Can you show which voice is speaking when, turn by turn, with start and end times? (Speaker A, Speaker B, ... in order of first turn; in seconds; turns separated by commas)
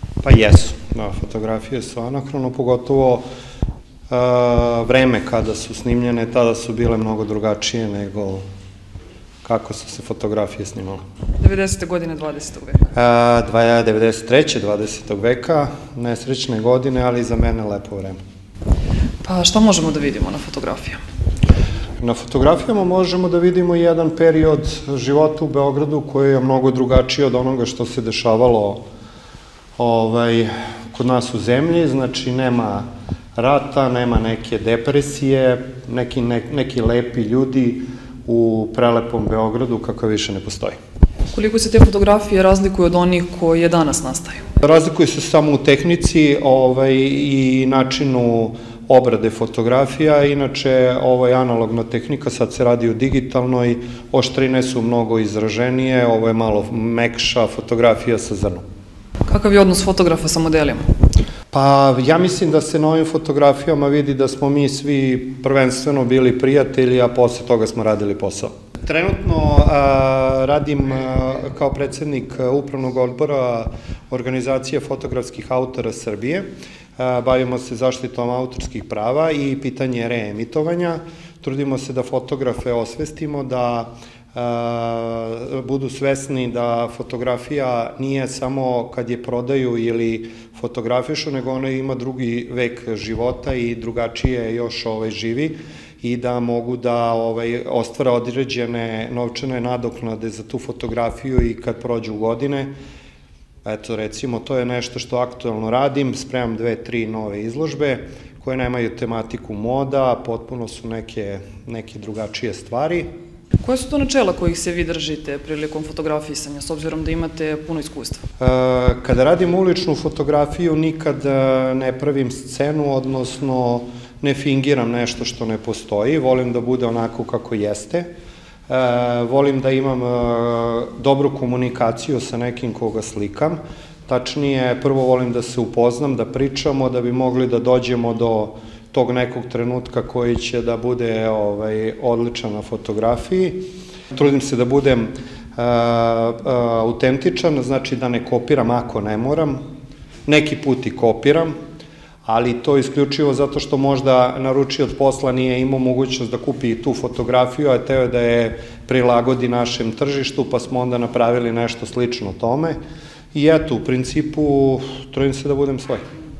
Speaker A: 0.2-3.2, Speaker A: 4.1-8.4, Speaker A: 9.4-11.0, Speaker B: 11.4-12.8, Speaker A: 12.9-18.2, Speaker B: 19.2-21.0, Speaker A: 22.0-28.8, Speaker A: 29.8-40.8, Speaker B: 41.3-44.4, Speaker A: 44.6-58.6, Speaker B: 59.3-60.9, Speaker A: 61.5-76.5, Speaker A: 77.0-102.7, Speaker A: 103.6-113.1, Speaker B: 113.6-118.2, Speaker A: 118.4-128.1, Speaker A: 128.7-149.6, Speaker A: 150.2-151.5, Speaker A: 152.2-162.8, Speaker A: 163.3-166.0